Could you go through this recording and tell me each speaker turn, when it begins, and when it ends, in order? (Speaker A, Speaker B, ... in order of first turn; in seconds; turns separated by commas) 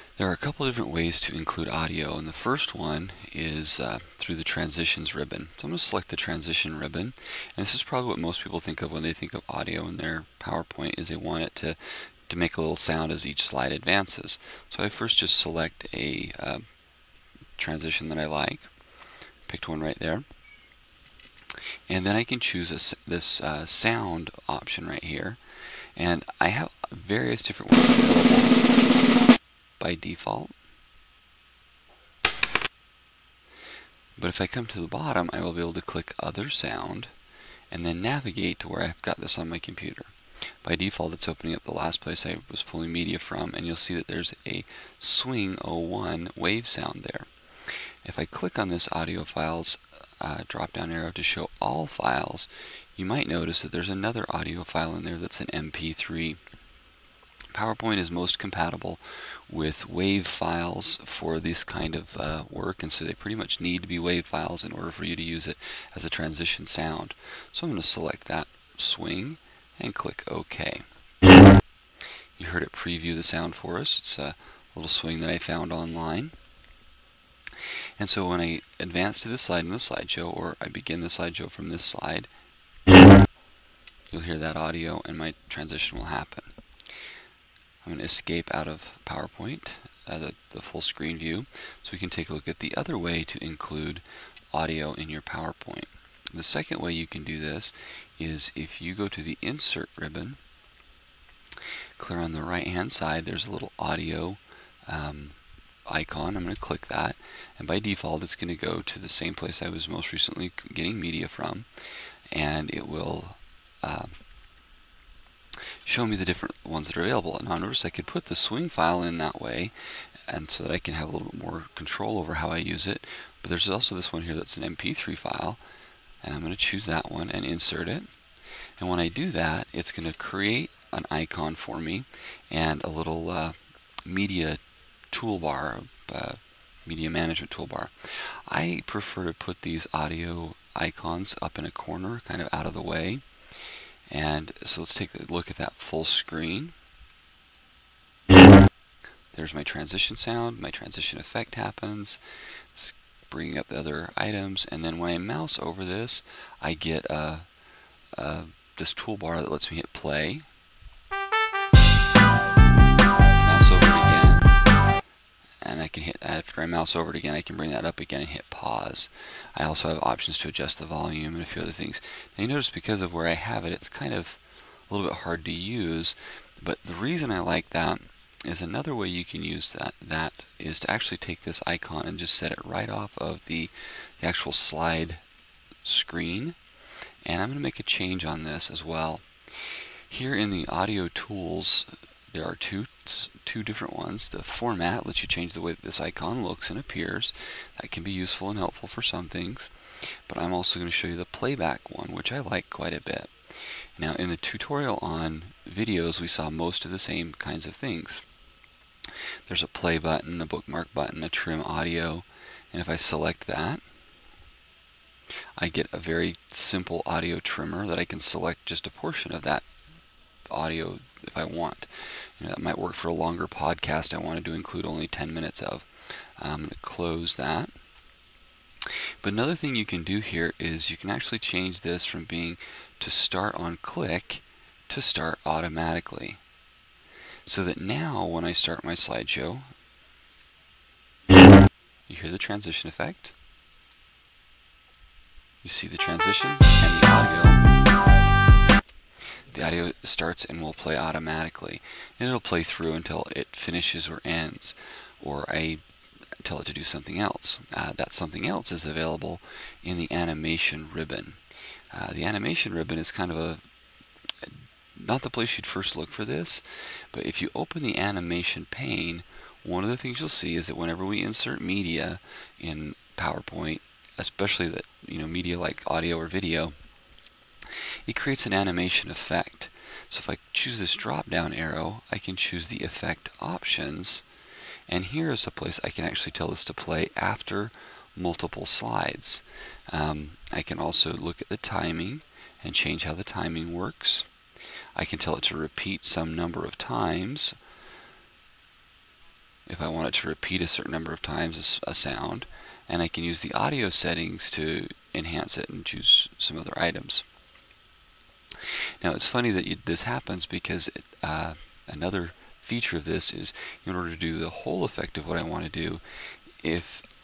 Speaker A: 0.2-16.7, Speaker A: 17.6-18.7, Speaker A: 19.5-20.3, Speaker A: 21.9-25.4, Speaker A: 25.9-28.6, Speaker A: 29.8-30.6, Speaker A: 34.2-37.1, Speaker A: 37.7-47.3, Speaker A: 48.0-56.4, Speaker A: 57.5-70.8, Speaker A: 72.3-76.3, Speaker A: 78.0-82.3, Speaker A: 84.1-86.5, Speaker A: 87.8-100.4, Speaker A: 102.0-111.7, Speaker A: 112.3-114.2, Speaker A: 115.8-119.7, Speaker A: 120.3-125.6, Speaker A: 126.2-128.1, Speaker A: 128.8-143.2, Speaker A: 144.1-146.8, Speaker A: 149.3-152.2, Speaker A: 152.7-157.5, Speaker A: 158.1-160.5, Speaker A: 163.4-164.5, Speaker A: 165.6-185.2, Speaker A: 185.8-186.6, Speaker A: 187.2-199.7, Speaker A: 200.3-208.2, Speaker A: 209.4-213.8, Speaker A: 215.6-219.6, Speaker A: 220.5-227.7, Speaker A: 229.2-236.4, Speaker A: 237.4-239.7, Speaker A: 242.1-243.3, Speaker A: 245.6-247.6, Speaker A: 249.5-255.8, Speaker A: 256.4-261.4, Speaker A: 261.9-263.6, Speaker A: 264.4-276.8, Speaker A: 277.8-284.2, Speaker A: 284.9-294.3, Speaker A: 294.9-297.6, Speaker A: 299.7-307.2, Speaker A: 308.6-316.0, Speaker A: 316.6-317.1